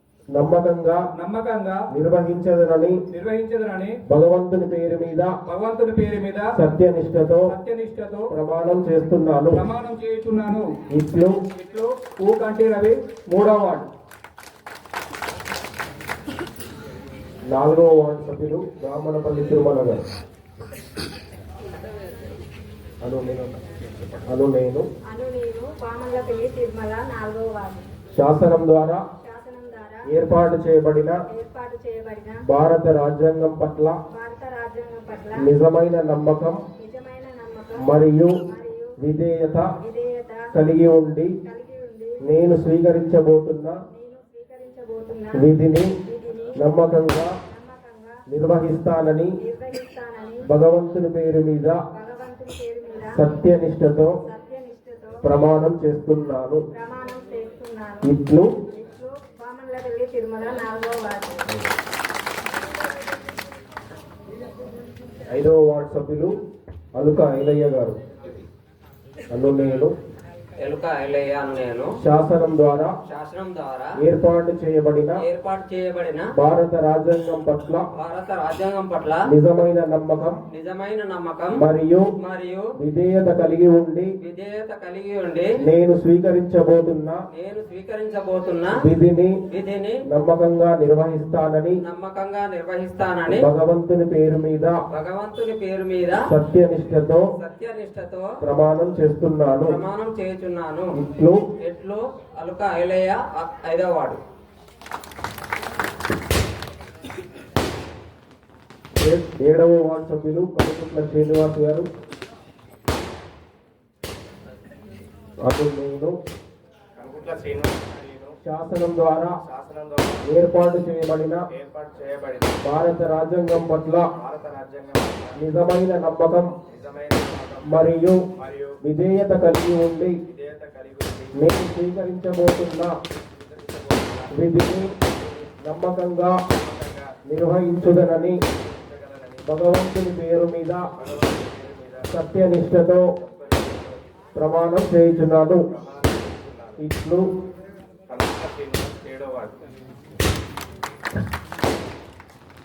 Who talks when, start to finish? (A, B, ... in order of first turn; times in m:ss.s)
0:00.4-0:01.0 A
0:01.2-0:01.8 B
0:01.9-0:03.0 A
0:03.1-0:04.0 B
0:04.1-0:05.3 A
0:05.5-0:06.5 B
0:06.5-0:07.6 A
0:07.5-0:08.3 B
0:08.3-0:09.6 A
0:09.5-0:10.7 B
0:10.9-0:11.3 A
0:11.6-0:13.9 B
0:17.5-0:20.0 A
0:23.0-0:23.6 A
0:24.1-0:24.9 A
0:25.1-0:27.9 C
0:28.1-0:29.0 A
0:29.2-0:30.0 C
0:30.1-0:31.2 A
0:31.3-0:32.4 C
0:32.4-0:34.0 A
0:34.1-0:35.5 C
0:35.4-0:36.6 A
0:36.8-0:37.9 C
0:37.8-0:38.3 A
0:38.4-0:39.0 C
0:39.0-0:39.7 A
0:39.8-0:40.7 C
0:40.5-0:41.3 A
0:41.4-0:42.2 C
0:42.2-0:43.8 A
0:43.9-0:45.5 C
0:45.3-0:45.9 A
0:46.1-0:46.5 C
0:46.6-0:47.3 A
0:47.4-0:48.2 C
0:48.3-0:49.3 A
0:49.4-0:50.5 C
0:50.5-0:51.8 A
0:52.0-0:53.4 C
0:53.1-0:54.2 A
0:54.3-0:55.4 C
0:55.2-0:56.6 A
0:56.7-1:01.4 C
0:58.0-0:58.5 A
1:05.3-1:06.3 A
1:07.0-1:08.0 A
1:09.3-1:09.9 A
1:10.6-1:11.9 D
1:12.0-1:12.9 A
1:13.1-1:13.9 D
1:14.0-1:15.2 A
1:15.2-1:16.2 D
1:16.4-1:17.9 A
1:18.0-1:19.2 D
1:19.3-1:20.4 A
1:20.5-1:21.6 D
1:21.6-1:22.0 A
1:22.2-1:22.7 D
1:22.8-1:24.1 A
1:24.2-1:25.5 D
1:25.6-1:27.2 A
1:27.3-1:28.7 D
1:28.8-1:29.4 A
1:29.5-1:30.0 D
1:30.1-1:31.8 A
1:31.9-1:33.4 D
1:33.3-1:34.7 A
1:34.9-1:36.2 D
1:36.2-1:37.3 A
1:37.4-1:38.3 D
1:38.4-1:39.8 A
1:39.6-1:40.9 D
1:41.0-1:41.4 A
1:41.6-1:44.2 D
1:49.0-1:51.9 A
1:55.4-1:56.1 A
1:57.0-1:58.3 E
1:58.4-1:59.3 A
1:59.4-2:00.2 E
2:00.3-2:01.4 A
2:01.5-2:02.6 E
2:02.6-2:04.1 A
2:04.2-2:05.4 E
2:05.4-2:06.5 A
2:06.7-2:07.7 E
2:07.6-2:08.2 A
2:08.4-2:08.8 E
2:08.8-2:10.2 A
2:10.3-2:11.3 E
2:11.4-2:12.9 A
2:13.4-2:14.3 E
2:14.3-2:14.9 A
2:15.6-2:16.4 A
2:16.5-2:17.1 E
2:17.3-2:18.4 A
2:18.5-2:19.5 E
2:19.4-2:20.8 A
2:21.0-2:22.1 E
2:22.1-2:23.1 A
2:23.2-2:24.0 E
2:24.4-2:25.6 A
2:25.7-2:26.8 E
2:26.8-2:27.2 A
2:28.1-2:29.5 E